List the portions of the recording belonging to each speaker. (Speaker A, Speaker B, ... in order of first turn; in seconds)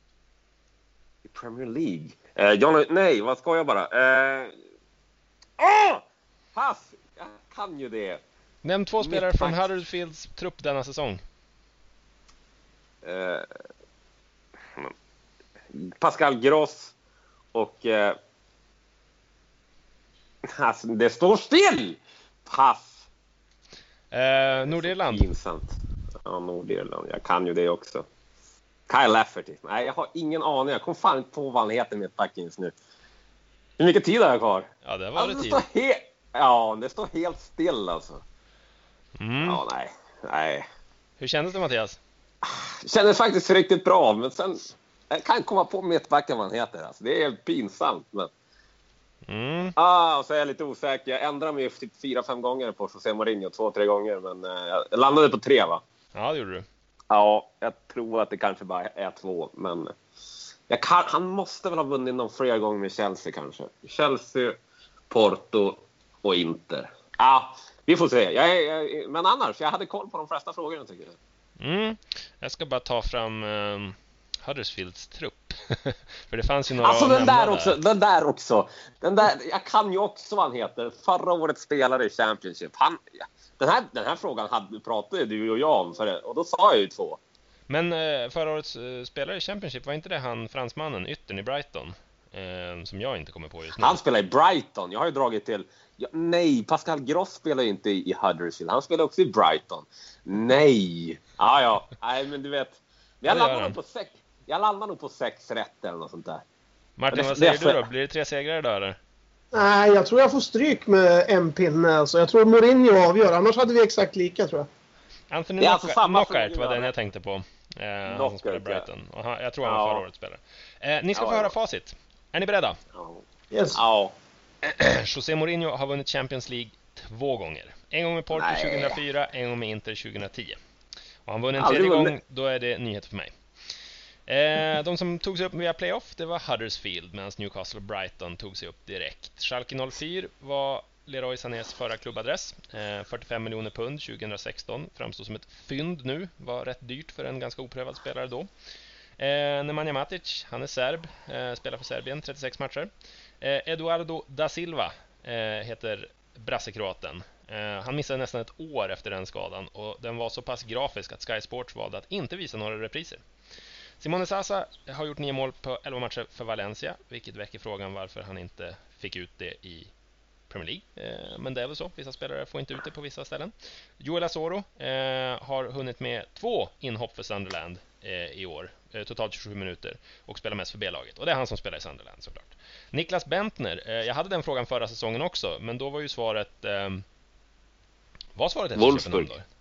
Speaker A: 1.2-4.5, 5.6-6.0, 6.5-8.2, 9.0-9.7, 13.0-13.5, 15.7-16.9, 17.5-18.1, 20.5-23.0, 24.4-28.1, 28.9-32.7, 33.8-38.2, 39.4-40.7, 42.4-48.3, 49.8-55.8, 57.1-59.9, 60.7-64.6, 65.1-71.2, 76.8-87.2, 93.8-106.4, 107.1-107.8, 115.6-116.9, 118.0-118.8, 119.6-120.0, 121.2-121.5, 123.0-124.2, 128.3-129.0, 131.6-132.2, 188.8-189.3
Speaker B: 8.6-11.2, 24.1-25.3, 34.8-35.6, 39.2-39.6, 41.2-42.0, 49.3-49.8, 56.1-56.7, 71.6-77.8, 87.7-94.0, 103.3-103.8, 107.0-109.0, 115.3-122.8, 124.6-130.6, 131.3-133.3, 134.3-148.5, 149.2-163.2, 164.0-169.9, 170.5-187.0, 188.4-189.5
Speaker C: 109.5-114.7, 123.5-123.8